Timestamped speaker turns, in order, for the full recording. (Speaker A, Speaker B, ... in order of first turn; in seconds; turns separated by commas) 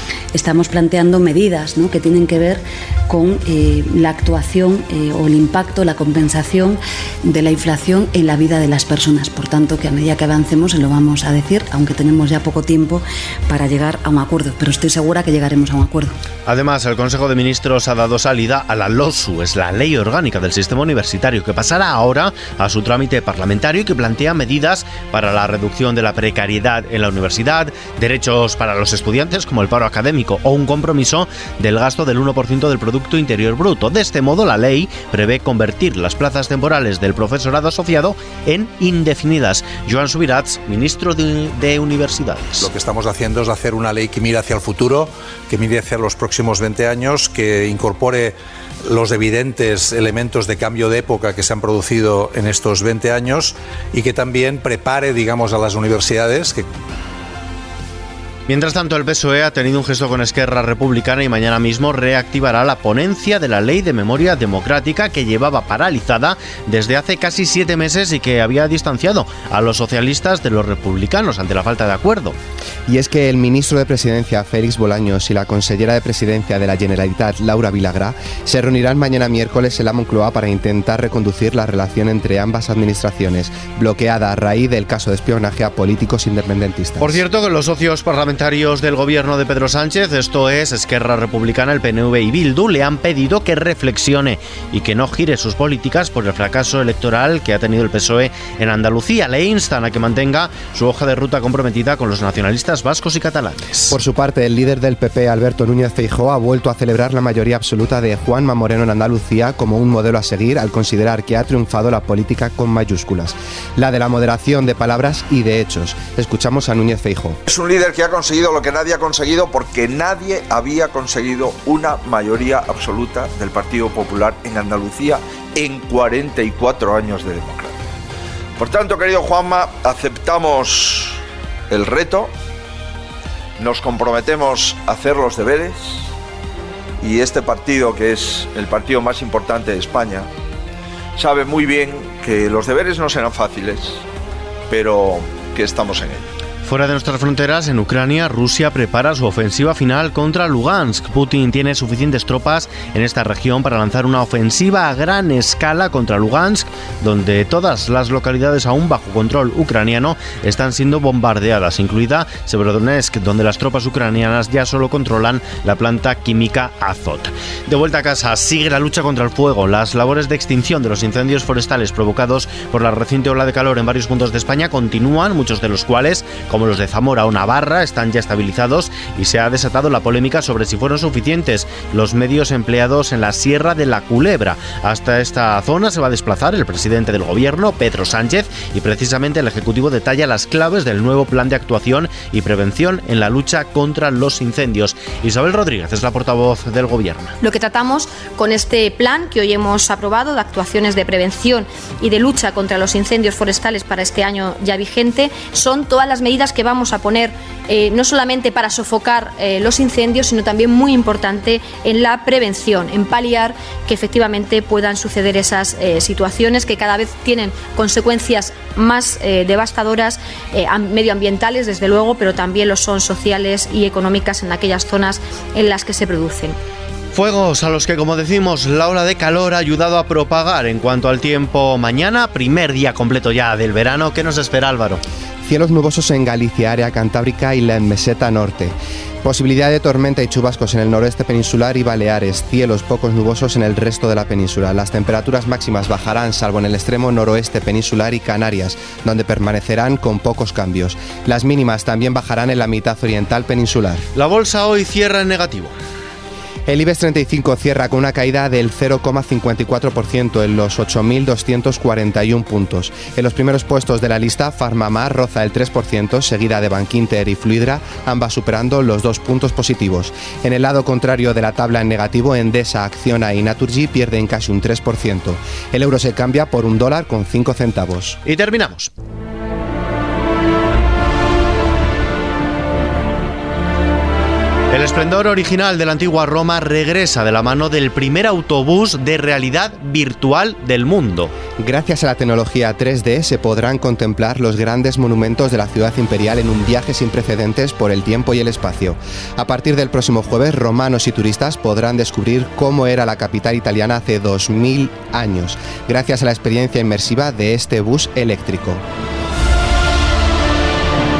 Speaker A: 0.3-16.1, Speaker B: 16.4-42.7, Speaker C: 42.6-56.7, Speaker B: 58.5-72.4, Speaker D: 72.9-87.2, Speaker B: 87.0-103.9, Speaker D: 103.9-117.4, Speaker E: 117.5-127.7, Speaker E: 128.6-132.3, Speaker E: 133.6-136.1, Speaker E: 137.0-140.3, Speaker E: 141.2-144.0, Speaker E: 144.7-146.3, Speaker B: 146.6-197.3, Speaker F: 197.4-226.6, Speaker B: 227.1-235.0, Speaker D: 235.4-254.0, Speaker B: 254.1-255.7, Speaker D: 256.7-278.2, Speaker B: 278.2-278.9, Speaker B: 284.7-291.3, Speaker D: 291.6-308.8